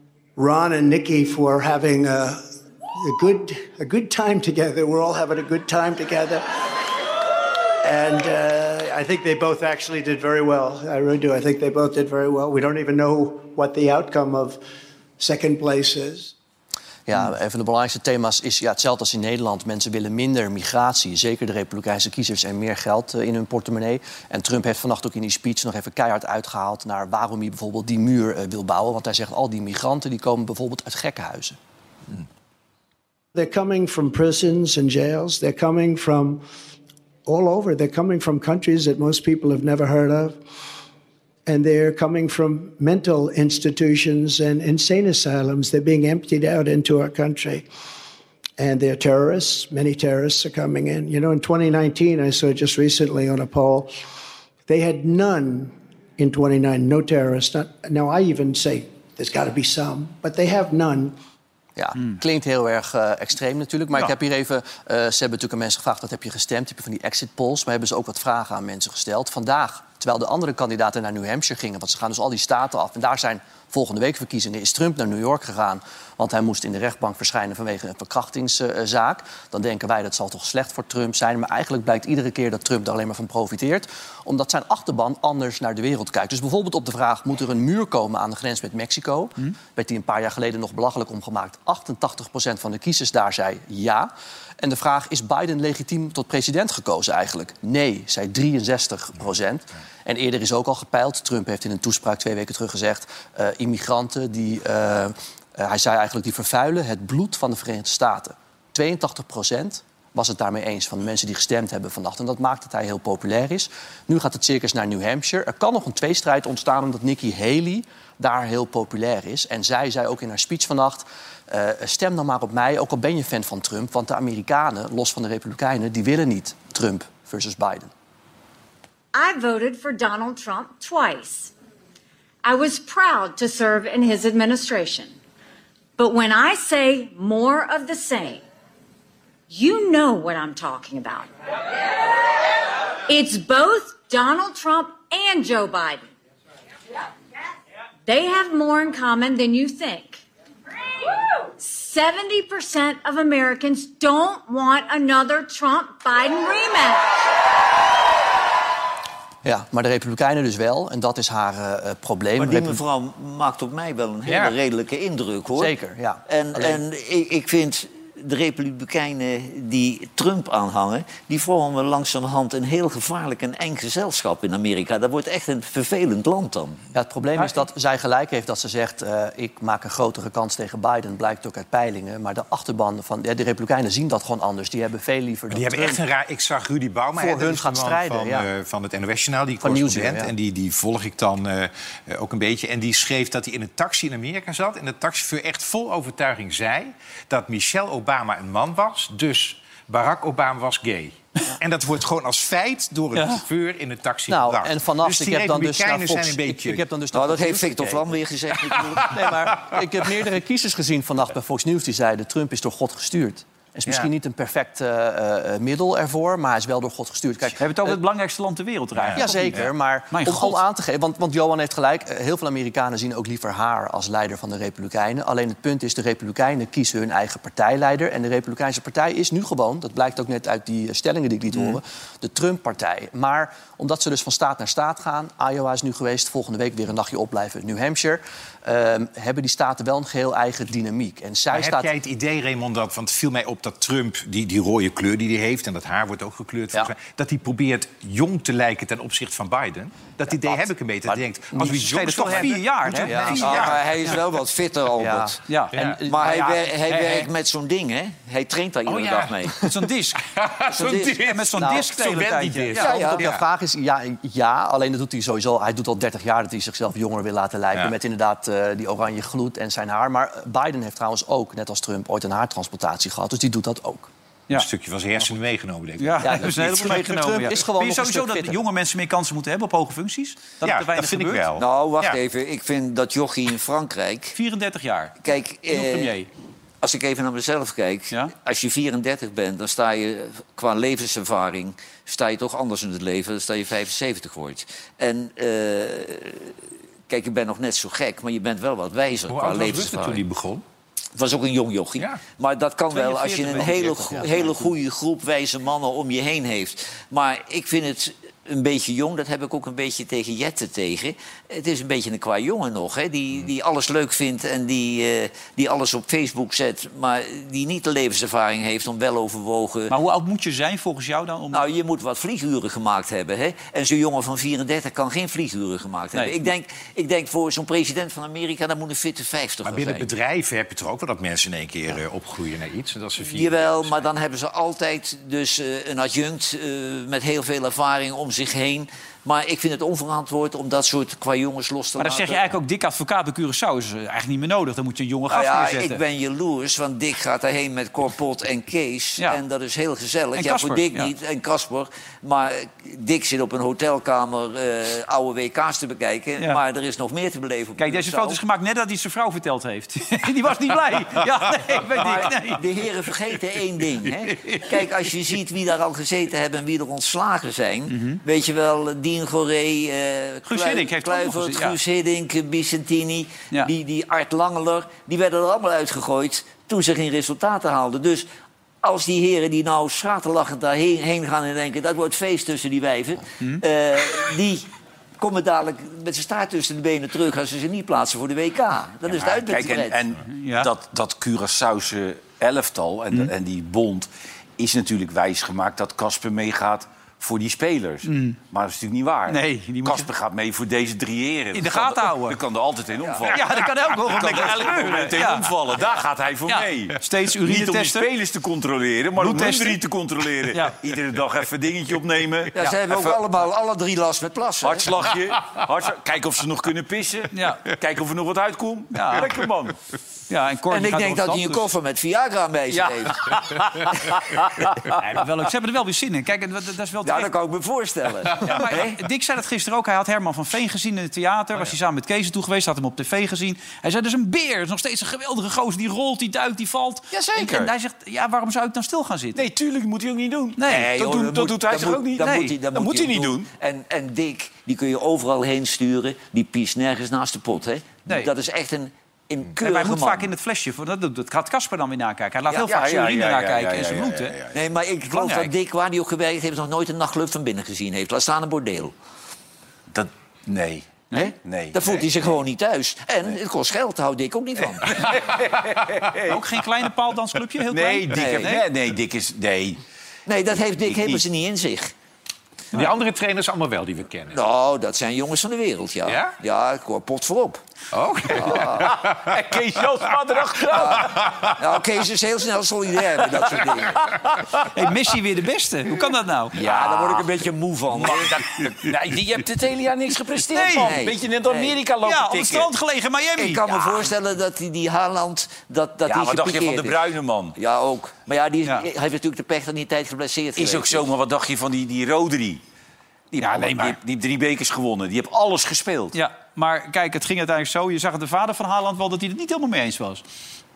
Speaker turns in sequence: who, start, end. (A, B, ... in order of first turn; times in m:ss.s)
0:00.4-0:06.6 A
0:07.8-0:14.6 A
0:15.2-0:16.3 A
0:17.1-0:31.6 B
0:33.3-0:36.4 A
0:37.2-0:40.4 A
0:41.4-0:47.7 A
0:48.6-0:53.9 A
0:54.7-1:01.2 A
1:01.8-2:07.9 B
2:09.1-2:11.5 C
2:12.4-2:15.1 C
2:16.0-2:18.4 C
2:19.5-2:21.3 C
2:23.1-2:26.1 C
2:28.0-2:30.2 C
2:31.5-2:37.1 C
2:39.4-2:42.8 B
2:42.4-2:45.7 D
2:44.2-2:44.6 E
2:45.6-2:46.8 B
2:46.3-2:56.8 D
2:56.9-3:06.0 B
3:05.5-3:26.8 E
3:07.2-3:08.5 B
3:09.6-3:10.3 B
3:23.1-3:23.4 F
3:24.3-3:28.1 B
3:27.1-3:29.2 D
3:29.0-3:38.0 B
3:37.6-3:40.6 F
3:38.9-3:39.4 E
3:39.1-4:01.9 B
4:01.5-4:14.1 E
4:11.1-4:11.7 B
4:11.6-4:14.1 F
4:13.0-4:13.6 B
4:13.4-4:15.4 D
4:15.0-4:16.7 B
4:15.5-4:15.7 F
4:15.7-4:16.0 E
4:16.1-4:19.6 D
4:16.9-4:17.2 F
4:18.8-4:19.5 E
4:19.6-4:22.9 F
4:20.3-4:23.4 E
4:20.7-4:21.2 D
4:21.6-4:21.8 B
4:22.7-4:23.2 D
4:22.7-4:34.1 B
4:34.5-4:37.0 E
4:36.0-4:41.5 F
4:36.2-4:38.6 B
4:40.6-4:42.2 E
4:41.6-4:44.4 D
4:44.3-4:46.3 F
4:45.2-4:46.1 D
4:46.8-4:56.5 D
4:57.1-5:00.2 D
4:59.3-5:00.6 E
5:01.1-5:19.9 D
5:02.9-5:04.6 F
5:19.9-5:21.7 F
5:21.5-5:30.1 D
5:26.1-5:26.4 F
5:29.6-5:34.1 E
5:33.2-5:42.5 D
5:42.0-5:46.0 F
5:45.3-5:58.4 D
5:50.4-5:51.1 F
5:57.8-6:02.6 F
6:02.0-6:18.2 D
6:07.9-6:08.2 F
6:10.5-6:11.8 F
6:18.8-6:24.7 D
6:25.2-6:30.0 D
6:29.1-6:53.2 G
6:30.3-6:30.7 F
6:38.0-6:38.4 F
6:39.3-6:40.1 F
6:41.5-6:42.4 F
6:43.3-6:45.6 F
6:46.5-6:48.1 F
6:49.2-6:49.8 F
6:50.5-6:50.8 F
6:52.5-6:54.9 D
6:54.6-6:59.8 G
6:57.3-6:57.7 F
6:58.9-6:59.3 F
7:00.3-7:01.7 F
7:00.7-7:03.4 D
7:02.7-7:03.0 G
7:04.9-7:07.3 F
7:07.0-7:09.0 D
7:08.4-7:19.4 F
7:17.1-7:17.7 G
7:19.3-7:23.5 G
7:20.6-7:20.9 F
7:20.7-7:30.3 D
7:22.2-7:22.6 F
7:29.6-7:34.4 F
7:32.6-7:34.6 G
7:34.5-7:38.9 D
7:35.1-7:35.5 F
7:39.9-7:42.1 G
7:41.1-7:45.1 D
7:44.8-7:46.4 G
7:46.3-7:48.7 F
7:47.7-7:49.8 G
7:48.1-7:48.5 D
7:50.3-7:51.9 D
7:50.8-7:51.2 G
7:52.7-7:54.4 E
7:54.3-7:57.6 D
7:56.0-7:56.3 E
7:57.9-7:59.3 E
7:58.3-8:01.2 G
7:58.3-7:59.0 D
8:00.7-8:04.1 D
8:01.1-8:01.5 E
8:03.3-8:04.7 G
8:04.7-8:06.6 F
8:06.5-8:12.7 G
8:06.6-8:08.4 D
8:10.5-8:11.0 F
8:10.7-8:11.8 D
8:12.0-8:14.1 F
8:13.3-8:17.0 D
8:16.0-8:17.5 G
8:17.6-8:21.1 D
8:20.6-8:22.6 G
8:23.3-8:26.2 G
8:23.4-8:24.0 F
8:26.1-8:30.2 F